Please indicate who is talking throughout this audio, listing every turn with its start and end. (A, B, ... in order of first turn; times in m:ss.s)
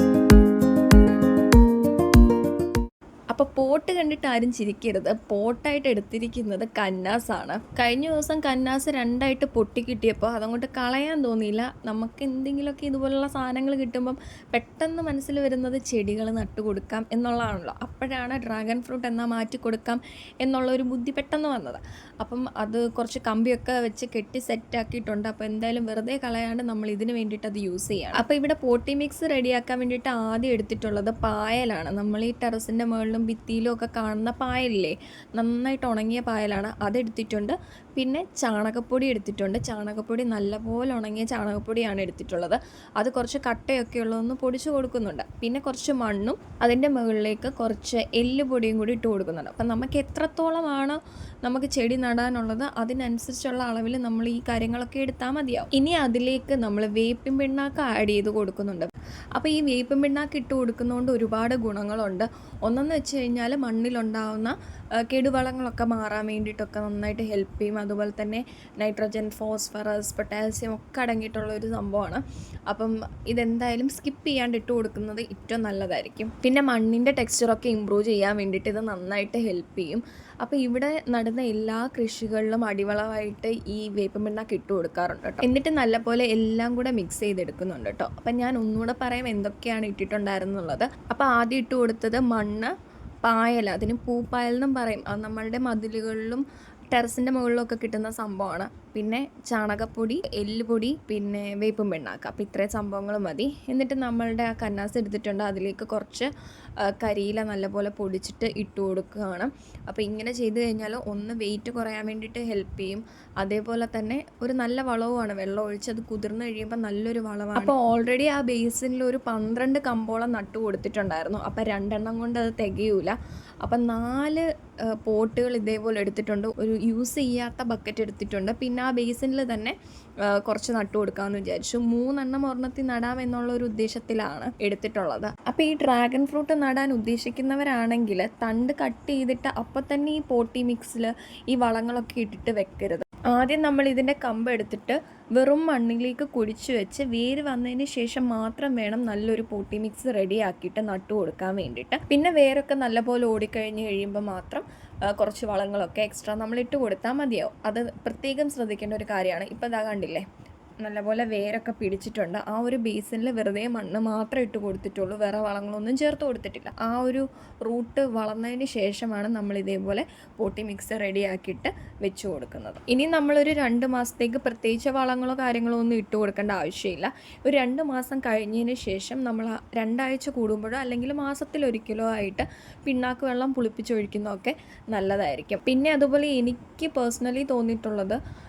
0:03.3-1:04.5 A
1:05.1-1:32.7 A
1:33.2-1:46.3 A
1:46.9-2:04.4 A
2:05.0-2:09.7 A
2:10.3-2:40.2 A
2:40.8-3:08.2 A